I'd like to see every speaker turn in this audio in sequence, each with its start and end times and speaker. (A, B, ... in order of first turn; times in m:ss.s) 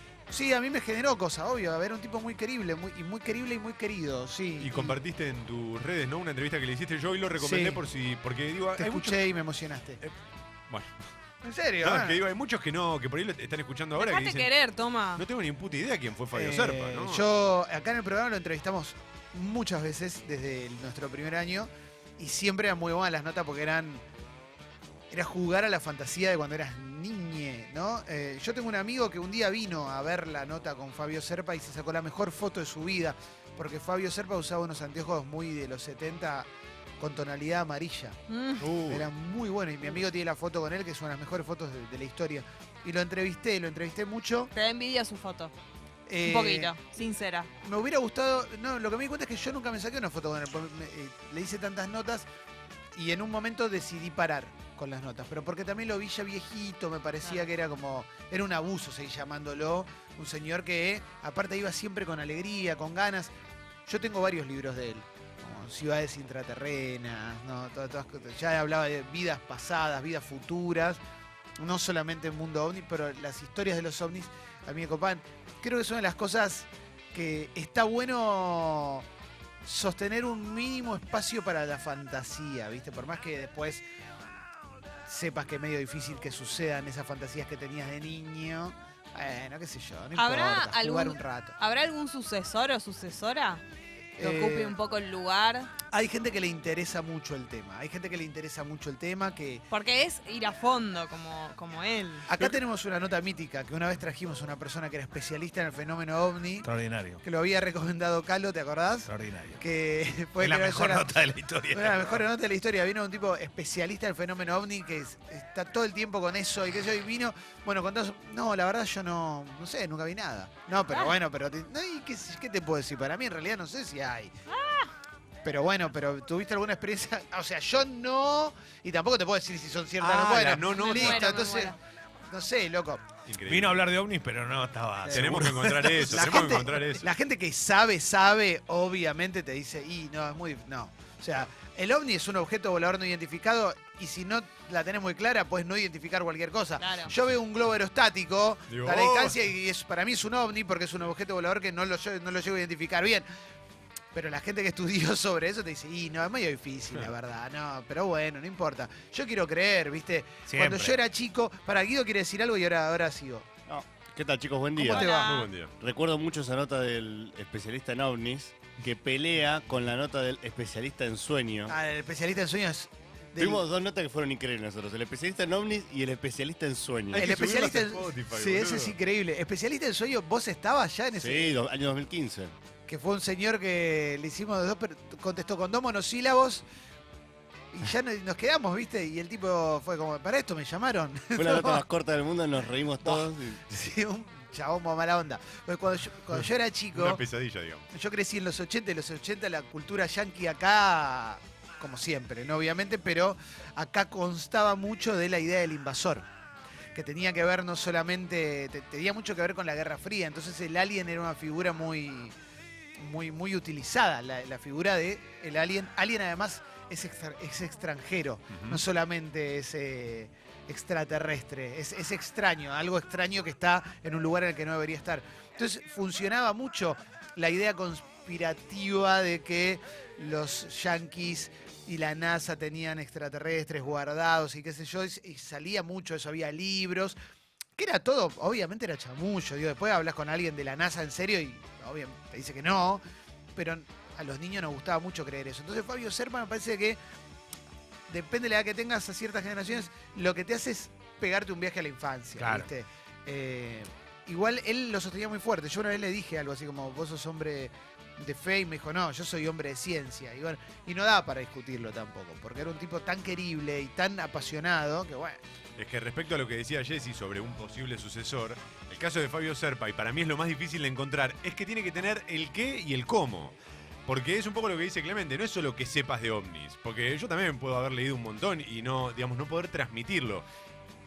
0:00.3-0:05.0 A
0:04.6-0:09.2 B
0:07.4-0:07.8 A
0:08.8-0:10.0 A
0:10.7-0:10.9 B
0:11.4-0:12.2 A
0:11.8-0:14.5 B
0:14.0-0:15.2 C
0:15.2-0:17.2 B
0:16.3-0:24.0 A
0:25.1-0:36.5 A
0:37.0-0:38.2 A
0:38.3-0:38.7 C
0:38.6-0:39.1 B
0:38.8-0:44.5 A
0:44.5-0:45.5 C
0:46.0-0:46.7 A
0:46.2-0:47.5 C
0:47.6-0:52.3 A
0:52.9-1:03.3 A
1:03.8-1:11.0 A
1:11.6-1:19.0 A
1:19.6-1:23.8 A
1:25.1-1:31.5 A
1:30.1-1:33.6 C
1:34.2-1:34.7 A
1:34.2-1:35.7 C
1:35.9-1:39.6 A
1:39.7-1:42.3 C
1:42.3-1:46.7 A
1:46.6-1:47.2 D
1:47.2-1:51.2 A
1:49.0-1:49.6 D
1:50.4-1:52.2 D
1:51.7-2:04.3 A
2:00.9-2:01.1 C
2:04.5-2:04.9 C
2:05.4-2:11.8 A
2:10.0-2:11.4 B
2:10.7-2:11.8 C
2:12.3-2:13.1 A
2:13.2-2:13.8 B
2:13.4-2:16.2 D
2:15.1-2:17.1 B
2:15.1-2:33.2 A
2:26.8-2:27.1 C
2:28.7-2:29.4 B
2:34.1-2:43.5 A
2:40.4-2:41.0 D
2:43.7-2:45.1 E
2:44.8-2:45.5 C
2:44.9-2:45.3 A
2:45.1-2:45.7 B
2:45.8-2:51.7 E
2:51.7-2:53.6 A
2:53.4-2:57.3 E
2:57.1-2:59.0 B
2:57.2-3:01.6 A
3:01.1-3:02.5 E
3:02.9-3:06.6 A
3:07.7-3:11.8 A
3:11.4-3:13.6 E
3:13.0-3:17.2 A
3:16.9-3:17.8 B
3:17.9-3:26.3 A
3:26.9-3:32.3 A
3:33.0-3:57.2 A
3:38.5-3:38.8 B
3:57.8-4:03.0 A
4:03.6-4:07.0 A
4:08.1-4:25.4 A
4:12.4-4:12.7 D
4:25.8-4:33.5 B
4:34.0-4:40.4 B